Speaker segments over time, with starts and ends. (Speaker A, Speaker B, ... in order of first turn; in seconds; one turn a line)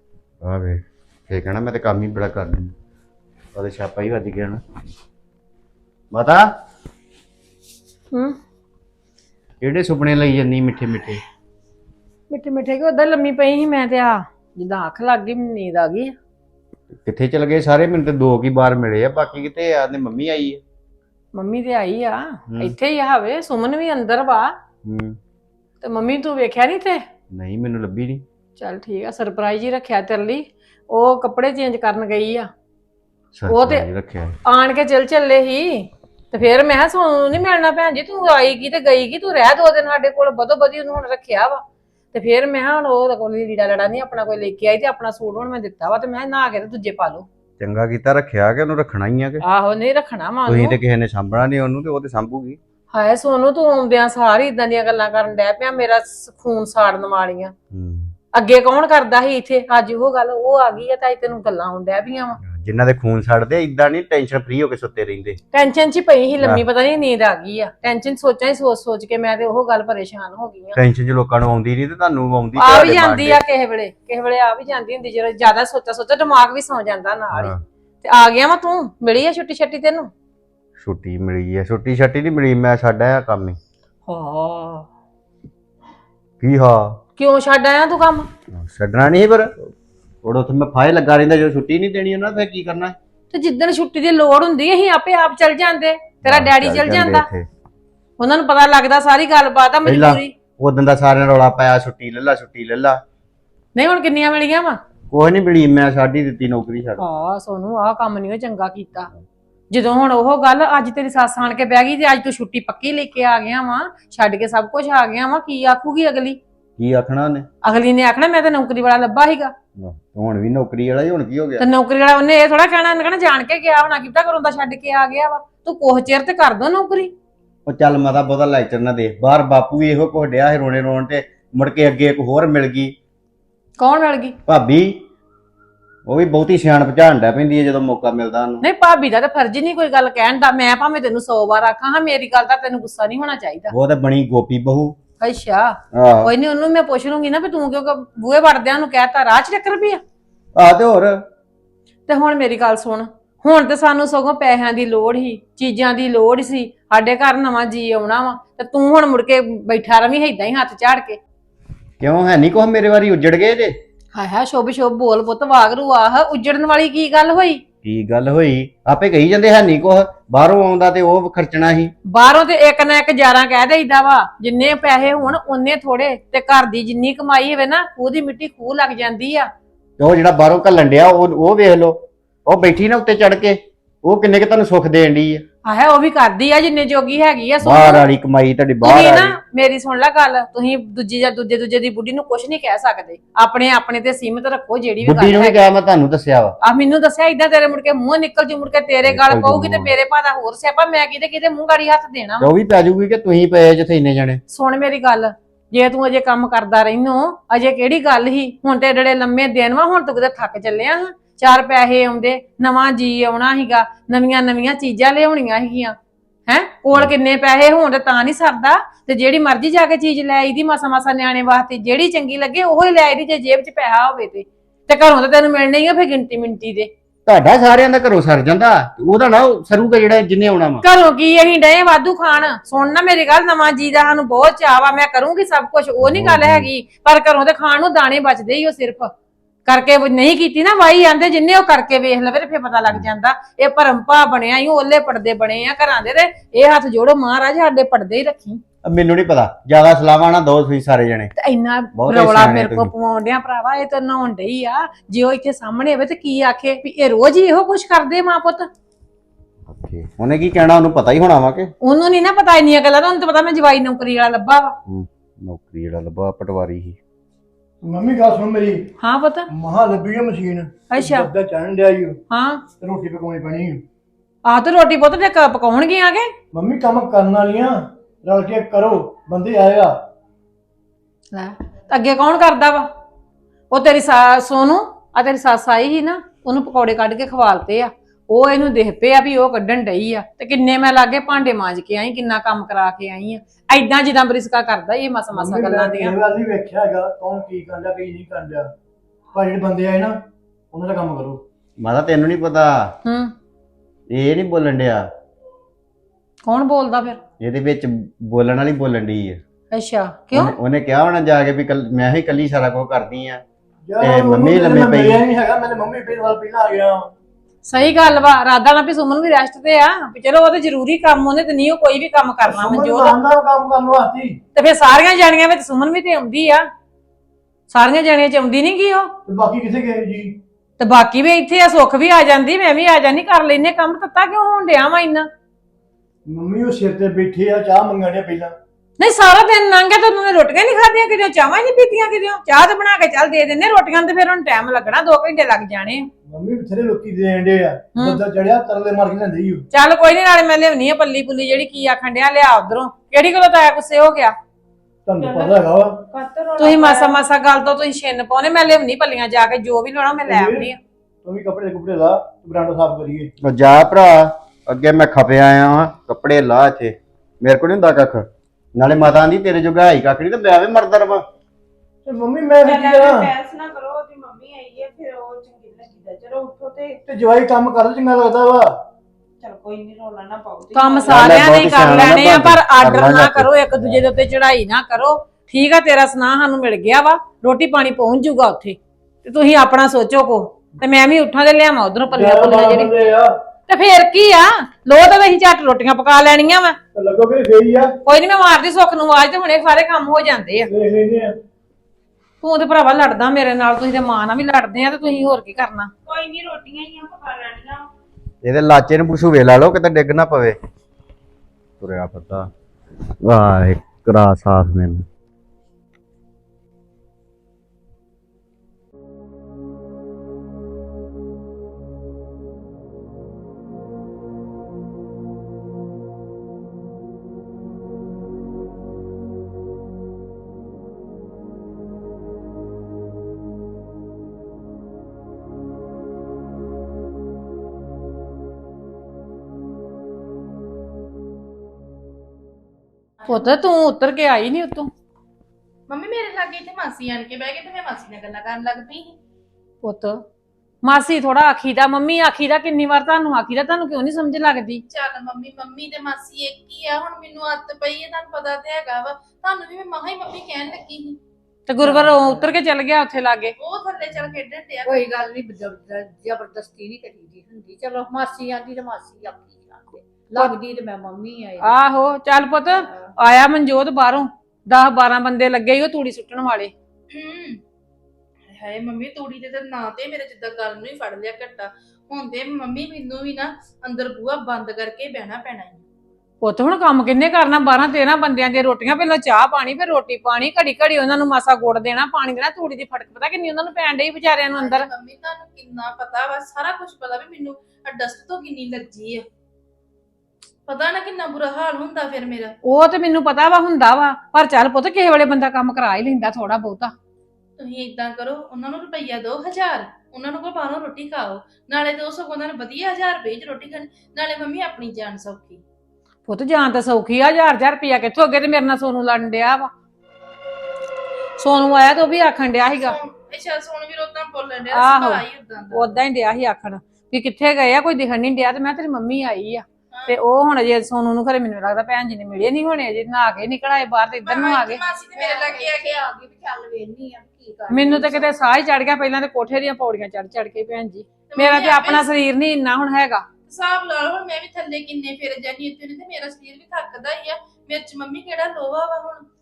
Speaker A: 0.4-2.7
Speaker A: 3.5-4.6
Speaker A: 6.1-6.5
Speaker B: 8.1-8.4
Speaker A: 9.6-11.2
Speaker B: 12.3-16.2
Speaker A: 17.0-20.6
Speaker B: 21.3-24.5
Speaker A: 24.9-25.2
Speaker B: 25.8-27.1
Speaker A: 27.3-28.2
Speaker B: 28.6-32.5
Speaker A: 33.4-34.4
Speaker B: 33.5-33.9
Speaker B: 34.5-47.3
Speaker A: 47.6-49.4
Speaker B: 49.4-50.8
Speaker A: 50.5-52.6
Speaker B: 52.9-57.5
Speaker A: 57.7-58.1
Speaker B: 58.3-62.4
Speaker A: 62.4-65.4
Speaker B: 65.5-70.8
Speaker A: 70.8-73.4
Speaker B: 72.6-77.5
Speaker A: 77.3-77.6
Speaker B: 78.0-80.1
Speaker A: 80.8-83.6
Speaker B: 84.1-84.8
Speaker A: 86.4-87.0
Speaker B: 87.2-88.3
Speaker A: 88.5-89.7
Speaker A: 90.2-93.0
Speaker B: 93.3-97.3
Speaker A: 96.2-97.5
Speaker B: 98.2-100.3
Speaker A: 99.9-103.0
Speaker B: 103.8-104.8
Speaker A: 105.1-107.0
Speaker B: 107.0-109.1
Speaker B: 109.7-116.4
Speaker A: 116.8-117.5
Speaker B: 117.6-119.5
Speaker A: 119.8-121.7
Speaker B: 121.6-127.1
Speaker A: 127.7-133.0
Speaker B: 133.8-134.4
Speaker A: 134.5-135.0
Speaker A: 136.1-138.6
Speaker B: 138.6-143.7
Speaker A: 143.7-145.0
Speaker B: 145.2-150.0
Speaker A: 145.9-146.3
Speaker A: 150.6-151.2
Speaker B: 152.1-161.2
Speaker A: 162.0-163.8
Speaker B: 164.1-167.6
Speaker A: 167.8-171.9
Speaker B: 172.1-179.5
Speaker A: 180.0-185.4
Speaker B: 185.7-188.0
Speaker A: 187.6-189.4
Speaker B: 188.8-195.7
Speaker A: 195.0-196.6
Speaker B: 196.6-202.5
Speaker A: 199.1-199.9
Speaker A: 202.4-204.4
Speaker B: 204.5-216.0
Speaker B: 216.5-226.9
Speaker A: 227.3-230.8
Speaker B: 230.8-239.1
Speaker A: 236.0-236.7
Speaker B: 239.7-248.6
Speaker A: 248.8-251.3
Speaker B: 251.4-258.7
Speaker A: 252.0-252.9
Speaker A: 259.7-261.7
Speaker B: 261.8-264.8
Speaker A: 264.9-267.0
Speaker C: 267.8-268.9
Speaker B: 269.0-269.5
Speaker C: 269.5-272.2
Speaker B: 270.9-271.3
Speaker B: 272.3-272.6
Speaker C: 272.8-273.8
Speaker B: 274.5-276.3
Speaker C: 276.5-280.0
Speaker B: 281.3-282.9
Speaker B: 283.7-296.1
Speaker C: 295.3-298.7
Speaker C: 299.3-300.2
Speaker C: 300.7-301.4
Speaker A: 301.8-303.0
Speaker B: 303.1-303.3
Speaker A: 304.1-305.1
Speaker B: 306.4-307.2
Speaker A: 307.4-309.4
Speaker B: 309.7-310.5
Speaker A: 310.3-313.4
Speaker C: 313.9-317.1
Speaker A: 314.0-315.2
Speaker B: 317.7-323.2
Speaker C: 322.4-324.4
Speaker B: 324.6-326.7
Speaker B: 327.7-329.1
Speaker C: 329.3-330.4
Speaker B: 330.8-335.3
Speaker C: 336.3-338.6
Speaker B: 339.0-346.1
Speaker C: 346.3-349.6
Speaker B: 347.9-348.2
Speaker B: 349.7-354.4
Speaker C: 355.1-356.0
Speaker D: 355.2-357.2
Speaker B: 356.6-360.8
Speaker C: 360.3-360.7
Speaker C: 361.2-363.3
Speaker A: 363.4-371.2
Speaker C: 372.1-373.3
Speaker D: 372.6-377.0
Speaker C: 377.1-378.7
Speaker D: 379.4-381.6
Speaker B: 380.8-392.9
Speaker A: 381.1-384.0
Speaker C: 392.1-393.3
Speaker B: 393.7-396.8
Speaker C: 396.9-397.9
Speaker B: 398.1-400.7
Speaker C: 400.7-401.3
Speaker B: 402.4-405.9
Speaker D: 406.1-407.9
Speaker A: 408.4-410.6
Speaker A: 411.8-412.5
Speaker A: 413.2-415.1
Speaker B: 443.3-444.9
Speaker E: 445.9-449.2
Speaker B: 449.8-450.2
Speaker B: 450.8-454.8
Speaker E: 454.9-461.2
Speaker B: 461.7-463.6
Speaker F: 461.8-462.5
Speaker E: 463.6-465.1
Speaker F: 464.8-471.8
Speaker B: 471.6-476.7
Speaker F: 472.6-473.1
Speaker E: 477.1-477.6
Speaker E: 478.5-485.8
Speaker B: 486.4-494.9
Speaker E: 494.6-499.2
Speaker E: 500.7-502.6
Speaker B: 502.6-506.9
Speaker E: 507.6-515.6
Speaker B: 516.3-519.7
Speaker B: 521.4-523.0
Speaker E: 522.8-526.0
Speaker B: 524.7-534.8
Speaker E: 534.2-536.0
Speaker F: 535.1-538.3
Speaker B: 537.7-543.3
Speaker E: 541.3-542.1
Speaker E: 543.5-549.2